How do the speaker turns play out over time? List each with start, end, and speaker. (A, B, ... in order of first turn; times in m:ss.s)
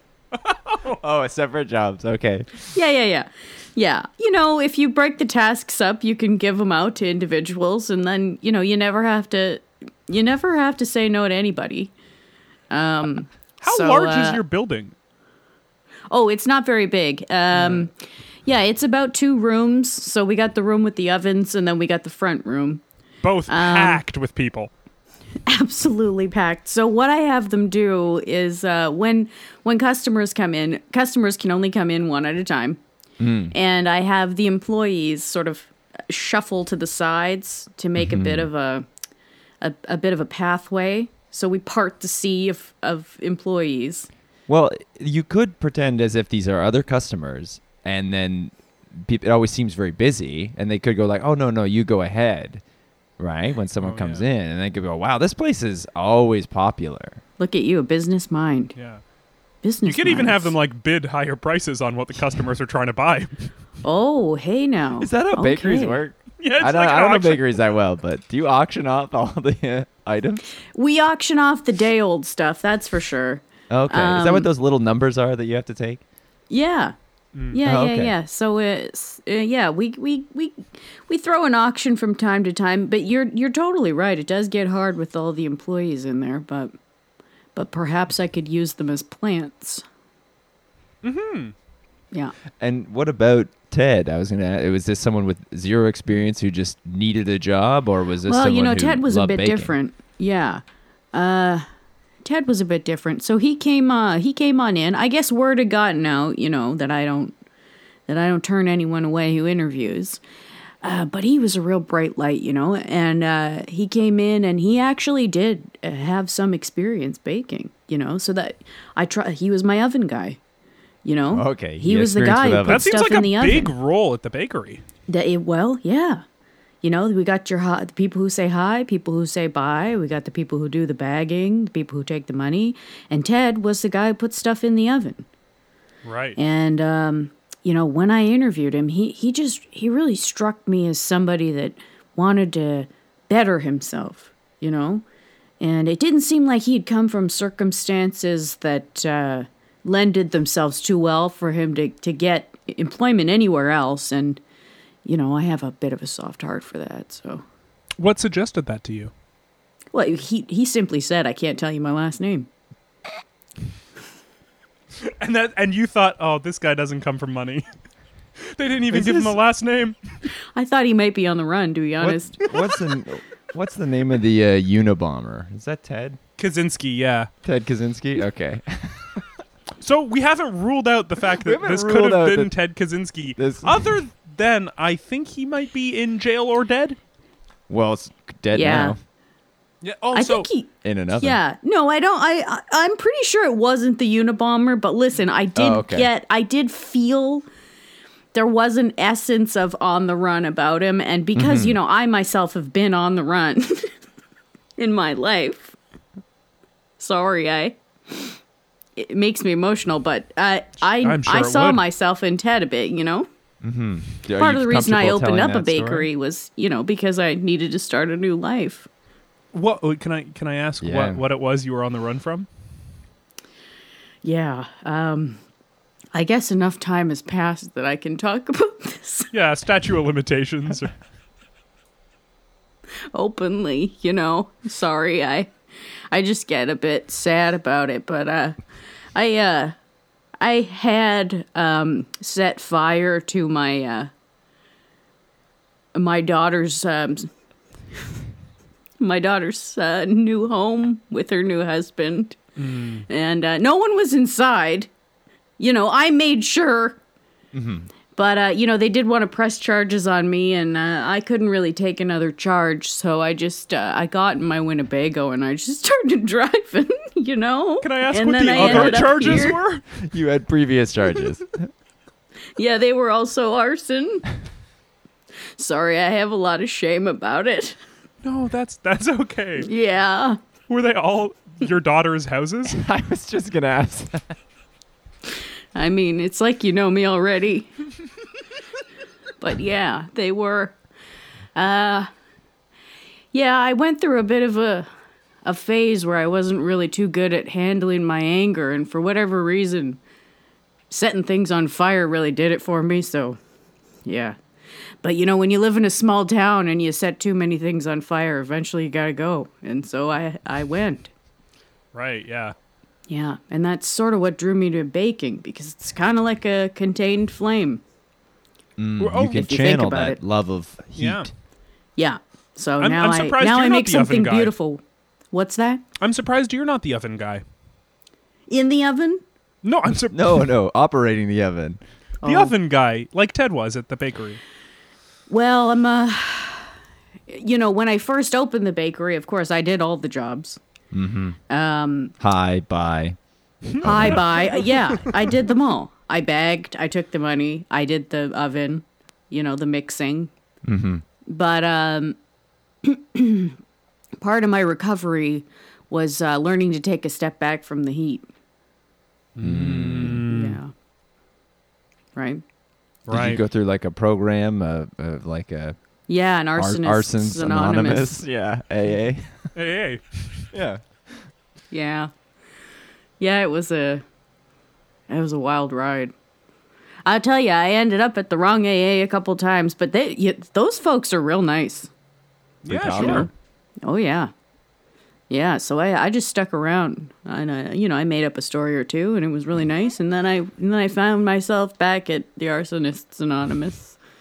0:00.4-0:01.0 A
0:01.0-0:02.5 B
0:02.7-0:11.9 C
0:12.7-0:14.4 C
0:13.6-0:14.9 A
0:16.1-0:17.9 C
0:17.5-0:17.8 A
0:18.4-0:22.8 C
0:23.2-0:24.7 A
0:23.5-0:24.0 C
0:25.5-0:32.8 C
0:33.2-0:33.5 B
0:33.5-0:38.9 C
0:38.0-0:38.5 B
0:39.6-0:44.1 C
0:44.5-0:52.6 B
0:53.2-0:57.2 B
0:53.8-0:54.2 A
0:57.4-0:58.7 C
0:58.8-0:59.0 A
0:59.6-1:00.5 C
0:59.8-1:03.3 A
1:03.8-1:06.0 C
1:05.0-1:10.5 B
1:06.4-1:07.5 A
1:10.8-1:14.5 C
1:13.7-1:16.0 B
1:16.5-1:17.0 C
1:17.5-1:26.7 C
1:17.6-1:18.1 B
1:27.6-1:29.8 C
1:31.0-1:31.5 A
1:32.6-1:39.7 B
1:38.3-1:40.6 C
1:41.1-1:41.7 C
1:42.2-1:47.4 C
1:48.1-1:50.2 C
1:50.8-2:00.4 C
2:01.0-2:03.7 C
2:01.3-2:02.9 B
2:02.6-2:04.8 A
2:05.1-2:06.2 C
2:06.8-2:15.2 C
2:16.0-2:16.4 A
2:16.4-2:25.0 C
2:25.6-2:34.4 C
2:35.0-2:37.4 C
2:38.0-2:39.1 A
2:39.9-2:42.5 C
2:45.0-2:47.7 A
2:48.4-2:50.0 A
2:50.6-2:52.4 C
2:52.1-2:56.2 B
2:56.4-2:57.3 A
2:57.4-2:59.3 B
2:59.8-3:07.0 A
3:01.4-3:02.5 B
3:03.4-3:03.9 B
3:07.7-3:09.0 B
3:08.5-3:09.0 C
3:09.8-3:10.5 A
3:10.1-3:17.4 C
3:10.8-3:11.4 B
3:15.6-3:16.1 B
3:18.3-3:23.9 C
3:21.4-3:21.8 B
3:24.8-3:25.8 C
3:27.0-3:28.4 C
3:29.0-3:33.3 C
3:31.0-3:31.8 A
3:33.6-3:36.1 B
3:34.4-3:38.9 C
3:39.5-3:42.5 A
3:40.8-3:41.2 B
3:44.2-3:45.4 C
3:46.1-3:49.3 C
3:49.3-3:50.9 A
3:53.1-3:55.5 C
3:56.1-3:58.6 C
3:59.2-3:59.8 C
4:00.4-4:04.1 C
4:06.0-4:07.3 C
4:09.0-4:14.9 C
4:12.6-4:13.0 A
4:15.6-4:17.0 C
4:17.5-4:17.9 B
4:18.2-4:29.6 C
4:27.8-4:29.8 A
4:28.5-4:31.7 B
4:32.6-4:34.3 C
4:35.6-4:37.8 C
4:38.2-4:39.7 A
4:39.6-4:40.4 C
4:40.7-4:42.8 A
4:42.7-4:44.3 B
4:45.8-4:47.7 C
4:49.4-4:50.8 C
4:51.6-4:52.1 C
4:53.3-4:54.9 C
4:55.4-5:00.0 C
5:00.9-5:03.4 C
5:04.0-5:04.4 C
5:05.0-5:11.1 C
5:11.9-5:12.6 A
5:13.1-5:17.8 C
5:18.8-5:21.3 B
5:19.0-5:19.4 A
5:19.2-5:20.2 C
5:21.0-5:21.3 A
5:22.0-5:25.8 C
5:22.8-5:24.5 A
5:26.0-5:27.4 A
5:28.5-5:29.2 C
5:29.6-5:30.5 A
5:30.1-5:31.8 B
5:32.2-5:32.5 C
5:32.2-5:34.4 A
5:35.3-5:36.7 C
5:37.3-5:40.6 C
5:40.9-5:41.4 B
5:41.5-5:42.1 C
5:42.2-5:43.2 B
5:43.7-5:44.2 B
5:43.8-5:44.2 A
5:43.8-5:50.3 C
5:50.6-5:51.0 B
5:51.3-5:52.2 C
5:52.8-5:53.6 C
5:54.2-5:58.2 C
5:59.4-6:00.6 A
5:59.4-6:00.2 B
6:00.3-6:00.7 C
6:02.2-6:02.4 C
6:03.1-6:03.4 A
6:03.1-6:05.8 B
6:06.1-6:08.2 C
6:06.6-6:09.5 B
6:09.6-6:10.5 A
6:10.5-6:10.8 B
6:11.7-6:12.1 C
6:13.2-6:14.0 C
6:15.1-6:16.1 C
6:17.0-6:21.9 C
6:22.6-6:23.3 A
6:22.7-6:23.3 B
6:23.0-6:23.3 C
6:23.8-6:24.3 C
6:25.3-6:34.0 C